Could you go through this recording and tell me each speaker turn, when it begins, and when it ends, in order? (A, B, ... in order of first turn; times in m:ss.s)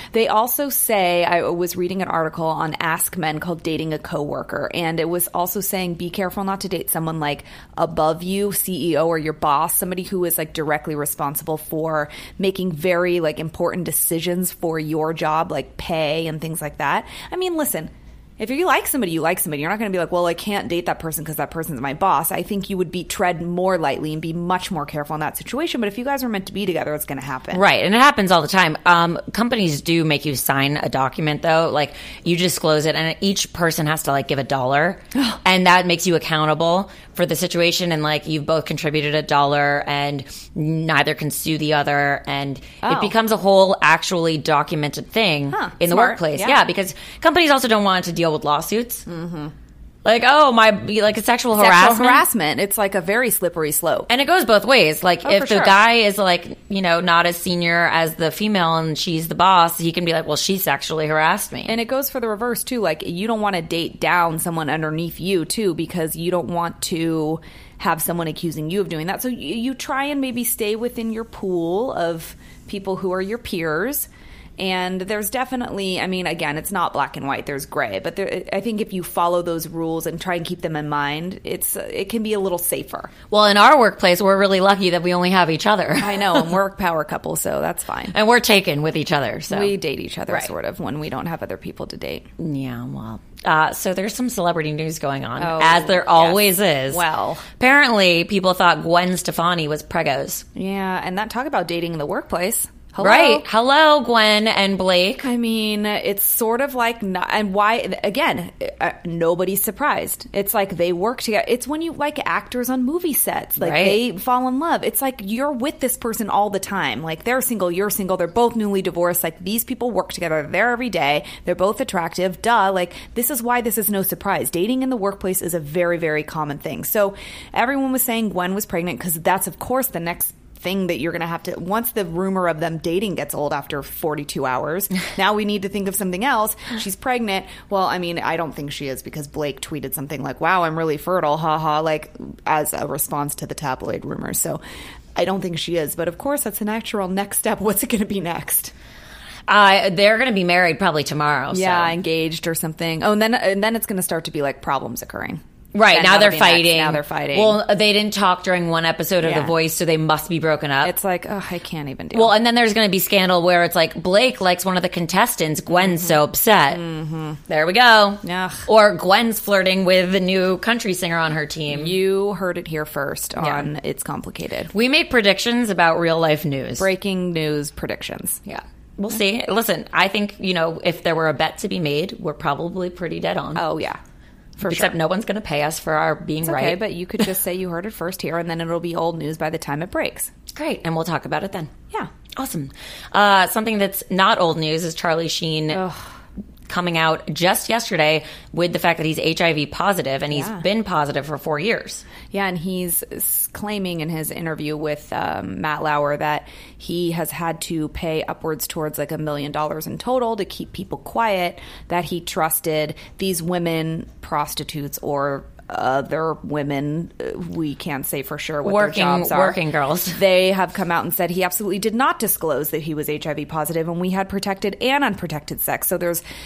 0:00.1-0:27.6 A
0:27.5-0:49.0 B
0:42.8-0:43.1 A
0:45.5-0:46.6 A
0:49.1-0:49.5 A
0:50.0-0:52.2 B
0:51.5-0:54.1 A
0:54.1-1:01.8 B
0:55.2-0:55.8 A
1:01.7-1:23.1 A
1:23.3-1:26.5 B
1:26.0-1:28.1 A
1:28.1-1:29.8 B
1:29.5-1:32.2 A
1:32.4-1:37.0 B
1:35.4-1:37.4 A
1:37.6-1:40.4 B
1:40.5-1:43.5 A
1:43.0-1:45.2 B
1:45.2-2:24.6 A
1:53.6-1:54.0 B
2:25.1-2:28.7 A
2:29.5-2:32.0 B
2:31.5-2:37.6 A
2:35.7-2:40.9 B
2:39.2-2:39.5 A
2:40.8-2:42.4 A
2:42.1-2:46.8 B
2:45.7-2:46.2 A
2:46.7-2:47.4 A
2:47.5-2:52.0 B
2:48.2-2:48.6 A
2:51.7-2:54.7 A
2:53.4-2:53.6 B
2:54.7-2:56.9 B
2:56.8-2:58.4 A
2:58.4-3:03.6 B
3:03.5-3:04.0 A
3:04.6-3:05.0 A
3:04.6-3:06.9 B
3:06.4-3:10.3 A
3:10.5-3:11.7 B
3:12.4-3:15.8 B
3:15.7-3:16.0 A
3:16.7-3:22.0 B
3:20.3-3:20.6 A
3:22.3-3:39.6 A
3:38.6-3:40.2 B
3:40.1-3:46.2 A